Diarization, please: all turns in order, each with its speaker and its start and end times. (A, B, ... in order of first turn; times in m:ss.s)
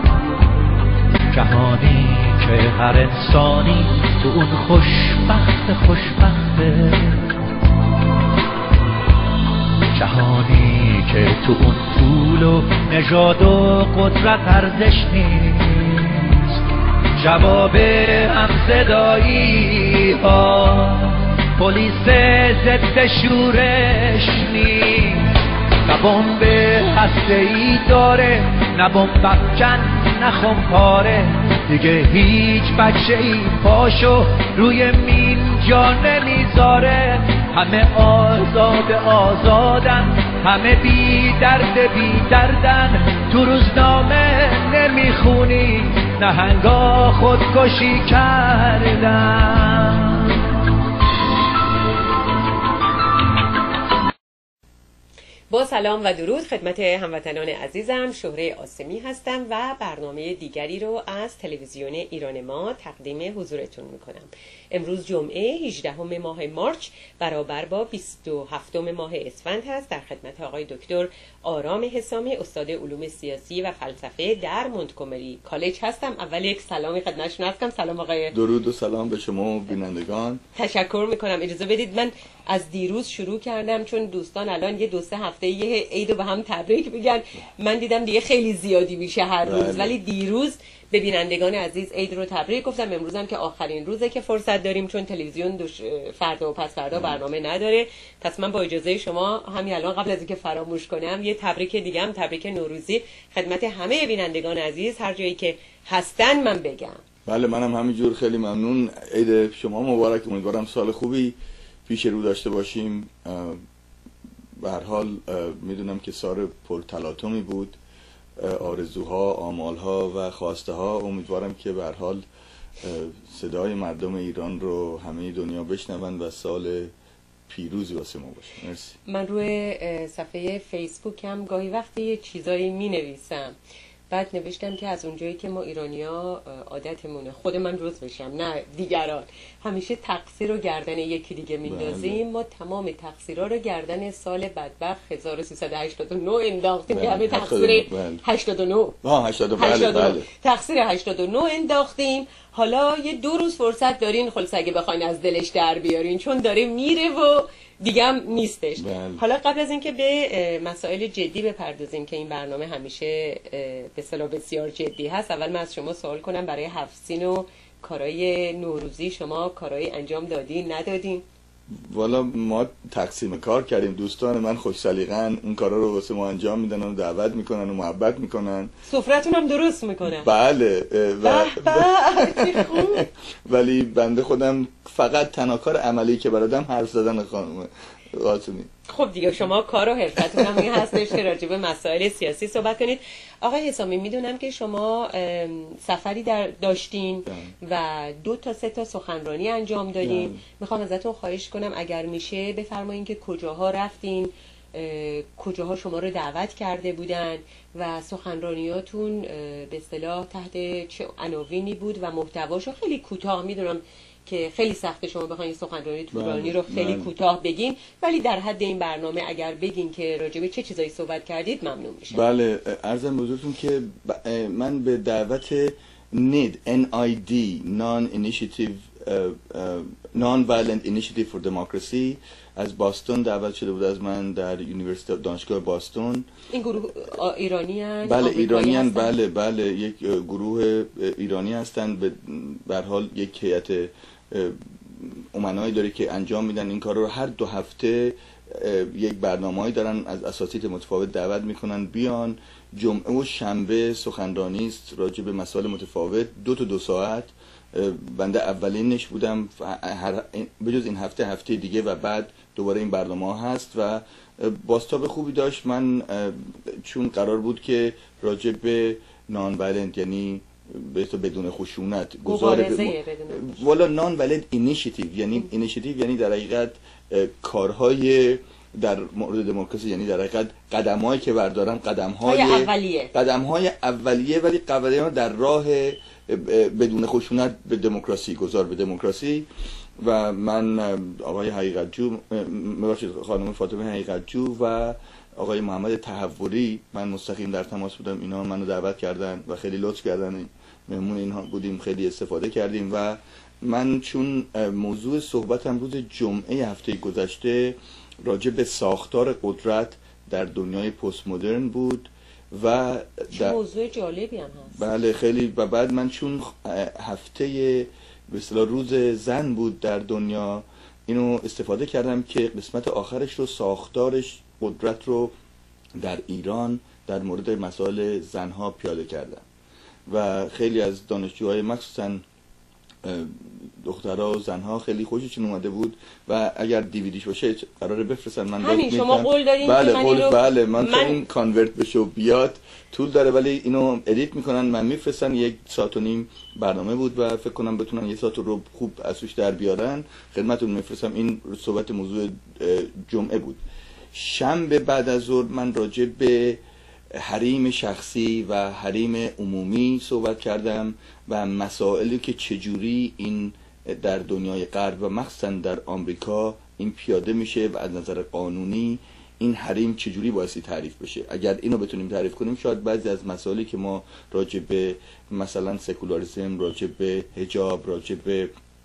0:01.3-0:07.4 A
0:09.9-0:16.6 A
0:17.2-0:50.4 A
0:55.5-1:18.3 B
1:18.3-1:20.4 C
1:20.6-1:47.0 B
1:29.4-1:30.0 C
1:36.9-1:37.2 C
1:47.2-1:53.6 C
1:54.6-1:57.8 C
1:58.4-2:02.2 C
2:02.8-2:06.9 C
2:07.5-2:09.0 C
2:09.1-2:13.6 B
2:14.1-2:29.0 B
2:21.6-2:22.2 C
2:26.9-2:28.2 C
2:29.0-2:30.3 C
2:29.6-2:51.2 B
2:38.8-2:39.2 C
2:51.7-2:58.7 C
2:58.8-3:00.3 B
3:00.0-3:08.7 C
3:01.2-3:03.1 B
3:08.9-3:42.2 B
3:10.2-3:11.0 C
3:17.3-3:17.5 C
3:20.0-3:20.4 C
3:36.1-3:37.1 C
3:42.1-3:56.3 C
3:56.5-3:59.1 B
3:58.0-4:49.5 C
4:32.2-4:33.6 B
4:42.2-4:43.1 B
4:50.0-5:13.6 C
5:13.3-5:14.8 B
5:14.7-5:25.3 C
5:26.0-5:29.4 C
5:30.1-5:32.2 C
5:33.0-5:53.6 C
5:38.6-5:41.2 B
5:54.1-5:56.6 C
5:57.1-6:18.5 C